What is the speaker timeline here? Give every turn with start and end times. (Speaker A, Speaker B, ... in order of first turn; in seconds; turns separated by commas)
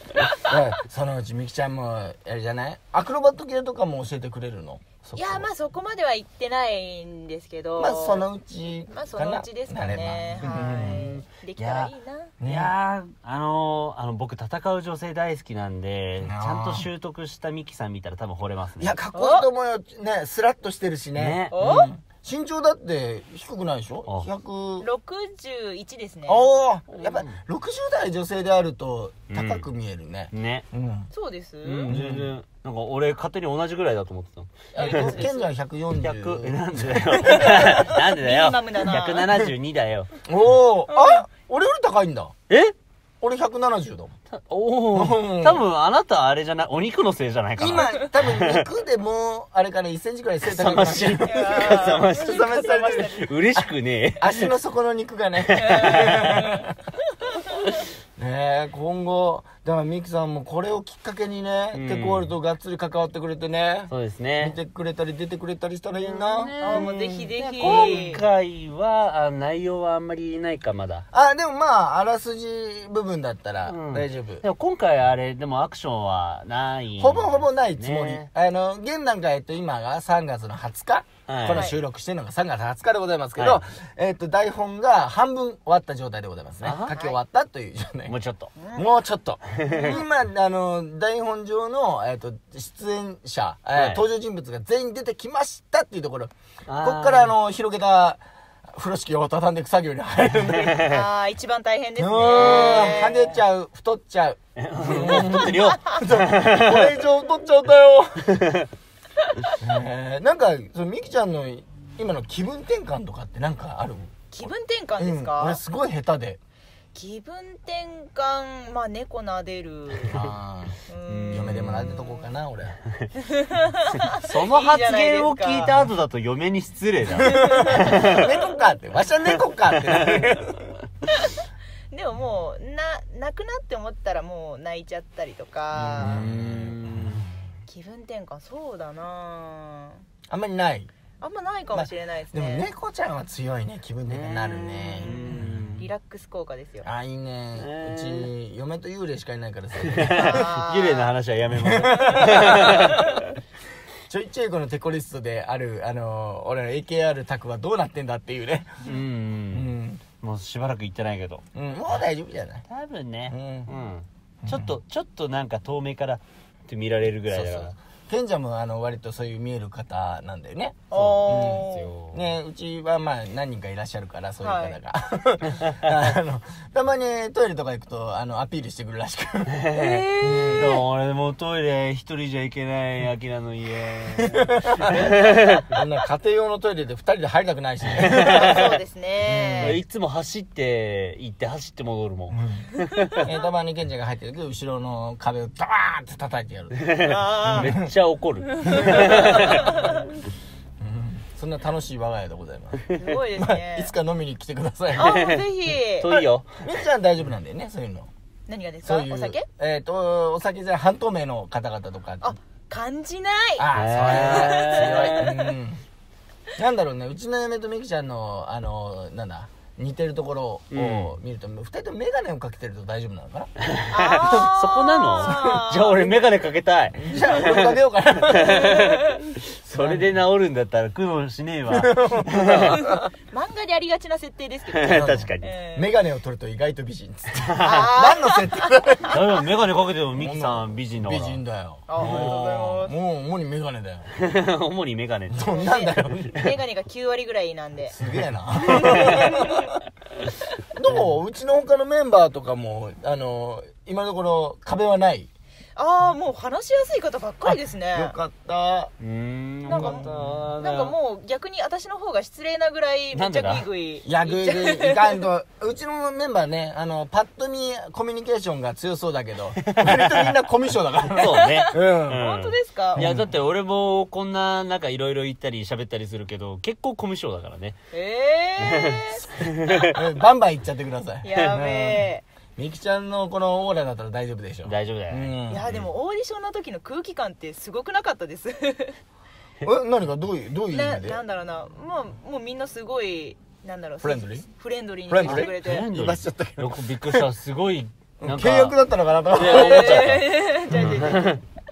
Speaker A: 0.4-5.5, Speaker B: 5.2-8.3, Speaker A: 7.8-11.1, Speaker B: 8.9-12.3, Speaker C: 10.4-18.9, Speaker A: 12.4-12.7, Speaker A: 16.2-16.9, Speaker A: 18.8-24.9, Speaker B: 19.1-19.5, Speaker C: 21.2-21.6, Speaker B: 21.5-21.9, Speaker B: 24.8-26.5, Speaker A: 26.3-31.1, Speaker C: 26.9-27.3, Speaker C: 29.3-29.6, Speaker C: 30.3-30.7, Speaker B: 31.1-31.9, Speaker C: 31.6-35.2, Speaker A: 31.9-32.3, Speaker B: 34.8-35.5, Speaker A: 34.8-37.9, Speaker C: 36.0-40.1, Speaker B: 37.3-39.3, Speaker A: 40.3-42.3, Speaker B: 40.9-41.2, Speaker C: 42.5-42.7, Speaker A: 43.2-44.1, Speaker C: 44.3-48.7, Speaker A: 44.9-45.6, Speaker A: 47.6-53.6, Speaker C: 50.4-54.5, Speaker B: 51.2-53.3, Speaker A: 54.2-56.7, Speaker C: 55.5-56.5, Speaker B: 55.8-56.6, Speaker A: 58.2-66.9, Speaker C: 61.7-62.3, Speaker C: 63.9-64.5, Speaker C: 66.0-71.0, Speaker B: 66.6-68.2, Speaker A: 67.6-68.2, Speaker A: 71.1-74.4, Speaker C: 73.7-78.3, Speaker A: 77.0-88.1, Speaker C: 81.3-81.7, Speaker B: 81.5-81.8, Speaker C: 86.6-86.9, Speaker C: 88.1-88.5, Speaker B: 88.6-88.8, Speaker A: 88.8-100.9, Speaker C: 89.5-90.0, Speaker B: 89.7-90.0, Speaker C: 93.8-94.0, Speaker C: 96.7-97.3, Speaker C: 100.6-101.0, Speaker B: 100.9-103.3, Speaker A: 102.0-108.4, Speaker C: 102.3-103.0, Speaker C: 104.6-106.9, Speaker B: 105.5-106.0, Speaker C: 108.2-108.7, Speaker A: 109.6-114.3, Speaker B: 114.3-115.6, Speaker A: 115.0-116.4, Speaker B: 116.9-120.2, Speaker A: 120.1-120.8, Speaker B: 120.9-122.2, Speaker C: 121.1-122.0, Speaker A: 121.3-122.8, Speaker B: 123.2-125.8, Speaker C: 124.1-128.3, Speaker B: 127.3-127.9, Speaker A: 127.6-130.7, Speaker C: 129.9-130.3, Speaker B: 131.1-131.4, Speaker B: 131.9-136.2, Speaker C: 135.8-137.3, Speaker A: 136.0-137.2, Speaker B: 137.7-140.0, Speaker A: 140.3-140.9, Speaker B: 141.2-142.7, Speaker A: 141.7-145.8, Speaker C: 144.1-145.8, Speaker B: 144.8-146.9, Speaker A: 146.8-150.4, Speaker C: 147.6-148.3, Speaker C: 149.8-153.1, Speaker B: 150.2-151.1, Speaker A: 151.6-153.2, Speaker B: 151.9-153.1, Speaker A: 154.1-158.9, Speaker C: 158.8-161.4, Speaker A: 159.5-160.0, Speaker A: 161.6-162.7, Speaker C: 162.7-167.7, Speaker A: 163.3-163.7, Speaker A: 164.4-164.7, Speaker A: 167.3-179.6, Speaker B: 170.9-171.9, Speaker C: 170.9-172.3, Speaker B: 174.4-174.8, Speaker C: 179.5-185.7, Speaker B: 179.7-180.8, Speaker A: 180.2-180.8, Speaker A: 184.5-185.1, Speaker A: 185.7-188.6, Speaker C: 188.0-188.7, Speaker B: 188.2-189.8, Speaker A: 189.2-189.8, Speaker C: 189.6-193.2, Speaker A: 192.3-192.6, Speaker B: 192.9-193.3, Speaker A: 193.2-197.9, Speaker C: 196.8-199.9, Speaker B: 197.0-197.7, Speaker B: 198.7-200.0, Speaker A: 198.7-199.9, Speaker A: 200.8-205.1, Speaker B: 202.9-203.9, Speaker B: 205.0-206.1, Speaker C: 205.0-206.6, Speaker A: 206.1-208.1, Speaker B: 208.5-209.5, Speaker A: 208.8-212.3, Speaker B: 212.2-215.4, Speaker A: 213.6-215.8, Speaker C: 213.7-215.3, Speaker A: 216.6-223.5, Speaker C: 220.7-221.2, Speaker C: 223.6-232.8, Speaker B: 223.9-226.1, Speaker A: 225.2-225.6, Speaker A: 226.9-228.8, Speaker B: 228.6-229.1, Speaker A: 229.7-230.1, Speaker A: 231.7-233.1, Speaker B: 232.8-235.9, Speaker C: 234.7-235.5, Speaker A: 234.9-239.2, Speaker C: 237.4-237.9, Speaker B: 237.6-239.1, Speaker C: 239.1-241.4, Speaker A: 240.2-244.1, Speaker B: 241.9-242.9, Speaker C: 242.0-242.5, Speaker C: 244.2-245.6, Speaker A: 245.3-246.4, Speaker B: 245.5-248.0, Speaker A: 247.9-249.8, Speaker C: 248.7-249.3, Speaker B: 249.1-249.4, Speaker A: 250.7-255.3, Speaker B: 255.8-258.1, Speaker A: 257.4-258.9, Speaker C: 259.0-260.9, Speaker A: 259.7-260.5, Speaker B: 259.7-265.2, Speaker C: 263.1-263.7, Speaker A: 264.1-272.2, Speaker C: 269.6-270.3, Speaker C: 271.1-277.8, Speaker B: 271.2-273.0, Speaker A: 272.9-273.4, Speaker B: 277.9-279.9, Speaker C: 278.6-280.0, Speaker A: 279.9-285.7, Speaker B: 281.2-282.2, Speaker C: 284.6-285.9, Speaker B: 285.5-289.0, Speaker A: 289.6-291.2, Speaker B: 290.7-295.9, Speaker A: 294.0-294.4, Speaker A: 295.1-297.3, Speaker C: 295.2-298.8, Speaker A: 298.2-301.2, Speaker C: 299.3-301.4, Speaker B: 299.4-301.4